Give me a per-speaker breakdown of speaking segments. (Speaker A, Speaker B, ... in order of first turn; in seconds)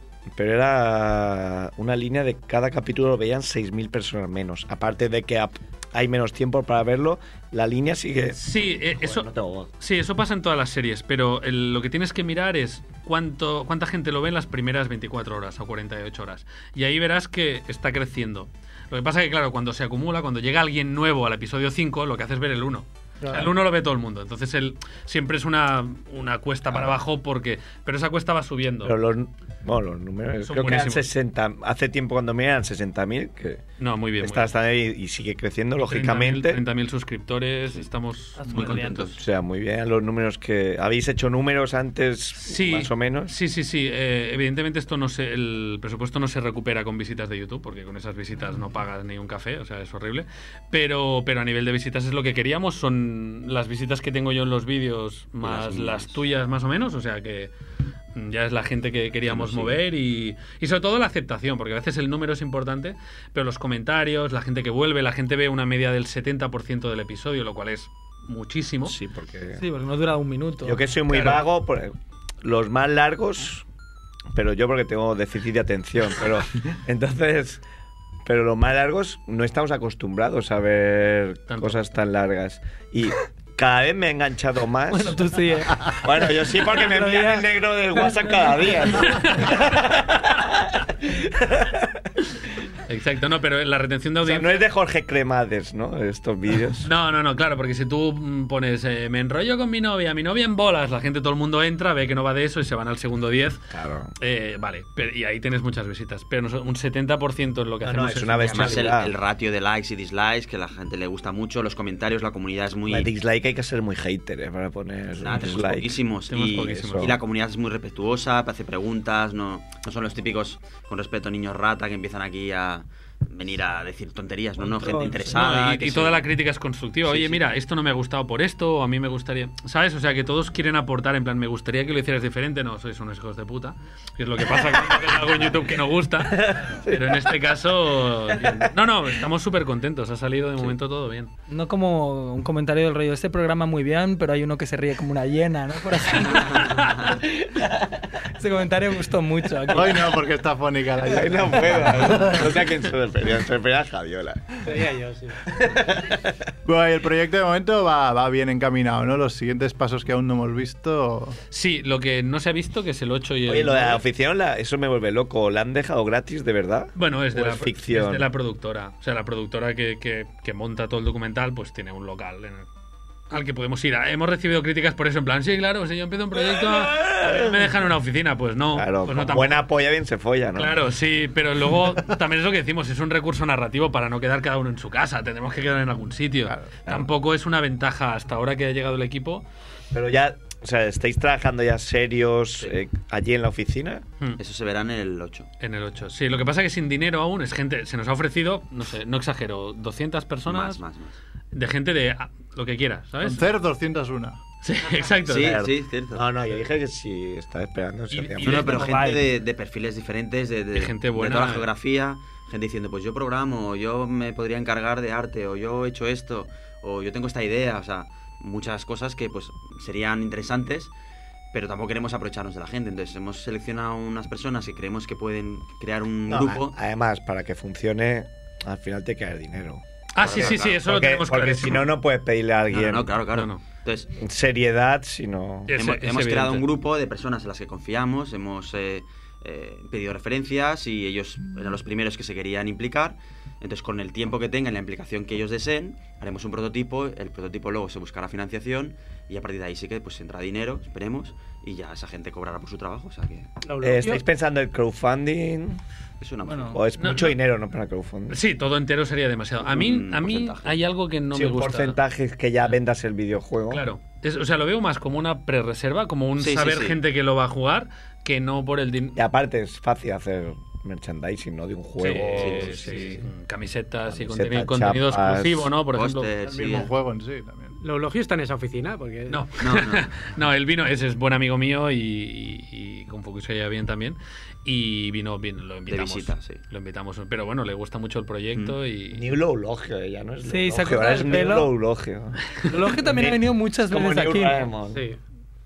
Speaker A: 0.3-9.7, 26.7-27.0, 28.8-33.6, 34.2-36.6, 39.2-43.3, 68.9-69.6, 70.6-73.7, 74.3-77.6, 78.3-85.2, 85.8-92.0, 94.2-96.9, 103.7-104.1, 107.8-109.1, 112.9-117.2, 136.2-137.3, 138.4-138.7, 151.1-154.6, 155.6-156.2, 163.5-168.3, 176.5-177.5, 178.7-180.8, 189.9-194.0, 205.3-208.8, 226.3-233.1, 234.2-235.8, 253.8-255.8, 256.7-258.4, 261.3-263.8, 269.2-273.2, 274.1-275.7, 289.1-295.0
Speaker B: 8.3-9.3, 9.8-29.0, 30.4-31.1, 33.8-34.5, 35.8-39.1, 42.4-57.5, 58.2-69.0, 71.1-71.4, 81.5-81.8, 92.9-94.6, 96.8-103.6, 104.2-108.9, 116.3-117.2, 125.3-141.3, 161.5-164.0, 167.0-172.7, 173.3-179.7, 180.6-189.4, 195.6-200.8, 201.5-203.5, 204.6-205.6, 208.1-209.0, 210.8-211.7, 230.2-231.9, 233.3-233.6, 235.7-236.7, 257.0-257.4, 258.3-262.0, 263.7-269.2, 272.0-276.3, 279.3-289.3
Speaker C: 38.4-39.1, 69.6-71.4, 84.9-89.2, 124.6-125.5, 141.5-147.8, 148.4-150.2, 208.4-209.2, 256.4-256.8, 290.4-291.7, 292.7-294.7
Speaker D: 38.5-39.2, 55.4-56.2, 59.3-59.8, 108.4-113.1, 115.2-126.3, 127.0-127.4, 194.4-195.5, 200.4-201.2, 205.3-206.3, 208.4-220.9, 221.5-226.8, 230.2-230.8, 232.7-234.1, 235.8-253.5, 256.2-256.8, 259.6-260.8, 266.4-267.0, 272.3-273.2, 275.9-276.9, 279.6-280.1, 285.9-286.6, 288.5-288.8
Speaker E: 149.7-152.6, 156.7-161.4, 203.2-204.4, 276.4-277.8
Speaker F: 154.6-155.4, 277.8-279.5, 294.9-295.2